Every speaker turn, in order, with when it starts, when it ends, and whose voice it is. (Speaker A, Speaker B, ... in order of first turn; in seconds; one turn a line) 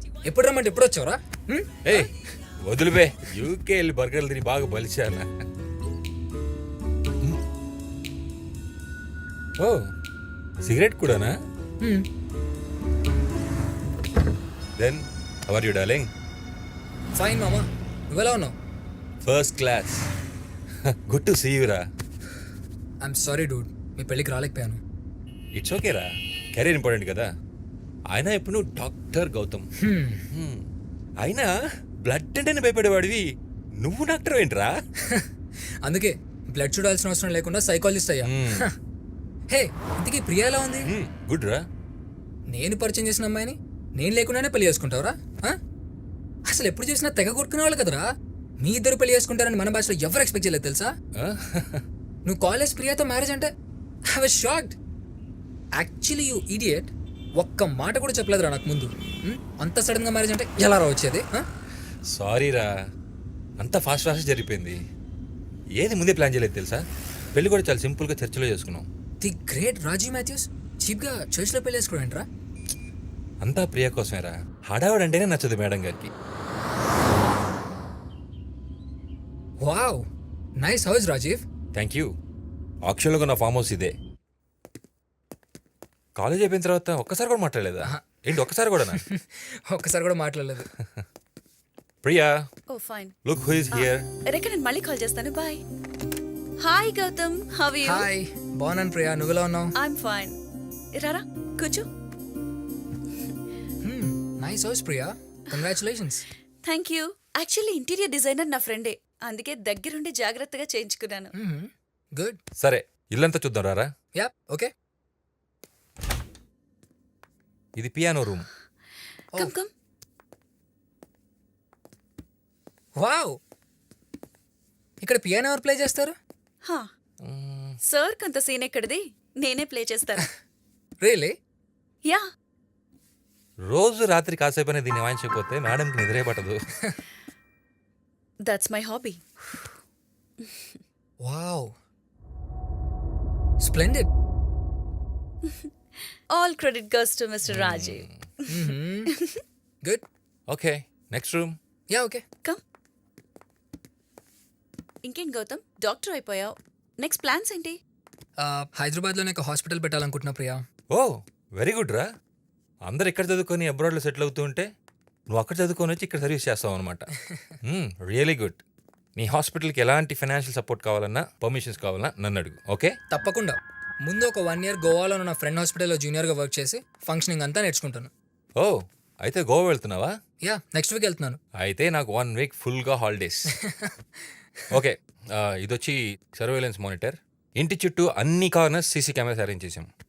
Speaker A: 0.2-2.0
Speaker B: 1.9-5.3
Speaker B: 10.6-11.3
Speaker A: 11.8-12.1
Speaker B: 14.8-16.1
Speaker A: 17.1-18.6
Speaker B: 19.2-20.1
Speaker B: 21.1-21.8
Speaker A: 23.0-24.8
Speaker B: 25.6-27.3
Speaker B: 28.1-29.7
Speaker A: 29.8-30.2
Speaker B: 30.3-30.6
Speaker B: 31.2-31.5
Speaker B: 32.0-33.2
Speaker B: 33.8-34.7
Speaker A: 35.8-38.8
Speaker B: 38.2-38.7
Speaker A: 39.5-40.9
Speaker B: 40.9-41.6
Speaker A: 42.5-45.6
Speaker A: 46.5-48.1
Speaker A: 48.6-50.9
Speaker B: 51.2-51.8
Speaker A: 52.2-53.5
Speaker A: 54.1-54.8
Speaker A: 55.8-61.5
Speaker B: 62.1-62.7
Speaker B: 63.6-64.8
Speaker B: 65.8-66.8
Speaker B: 67.3-68.9
Speaker A: 69.2-72.3
Speaker B: 73.4-76.1
Speaker A: 79.6-80.0
Speaker A: 80.6-81.4
Speaker B: 81.7-82.1
Speaker B: 82.8-83.9
Speaker B: 86.2-89.0
Speaker A: 88.9-90.7
Speaker B: 90.8-91.0
Speaker B: 92.0-92.4
Speaker C: 92.7-93.1
Speaker B: 93.2-94.1
Speaker C: 93.7-95.6
Speaker C: 96.6-98.1
Speaker A: 97.8-99.8
Speaker C: 99.8-100.4
Speaker C: 101.0-101.9
Speaker A: 103.8-106.3
Speaker C: 106.6-111.3
Speaker A: 111.3-112.4
Speaker B: 112.6-113.9
Speaker A: 114.1-114.7
Speaker B: 117.8-118.5
Speaker C: 119.3-119.7
Speaker A: 123.0-123.4
Speaker A: 125.0-126.2
Speaker B: 127.2-127.8
Speaker C: 127.8-130.3
Speaker A: 131.0-131.4
Speaker B: 133.7-136.6
Speaker C: 138.5-139.7
Speaker C: 140.5-140.8
Speaker A: 141.2-141.8
Speaker A: 143.6-144.1
Speaker C: 146.3-148.1
Speaker B: 147.5-148.2
Speaker A: 148.5-149.1
Speaker B: 150.5-151.6
Speaker A: 151.9-152.2
Speaker C: 155.1-157.8
Speaker A: 158.4-160.6
Speaker B: 160.9-162.1
Speaker B: 162.8-164.7
Speaker B: 165.3-167.1
Speaker A: 167.3-167.5
Speaker B: 167.7-168.6
Speaker B: 169.2-173.0
Speaker A: 173.1-178.1
Speaker B: 178.6-180.2
Speaker A: 180.4-181.4
Speaker B: 181.6-183.5
Speaker A: 183.6-183.9
Speaker B: 184.7-189.9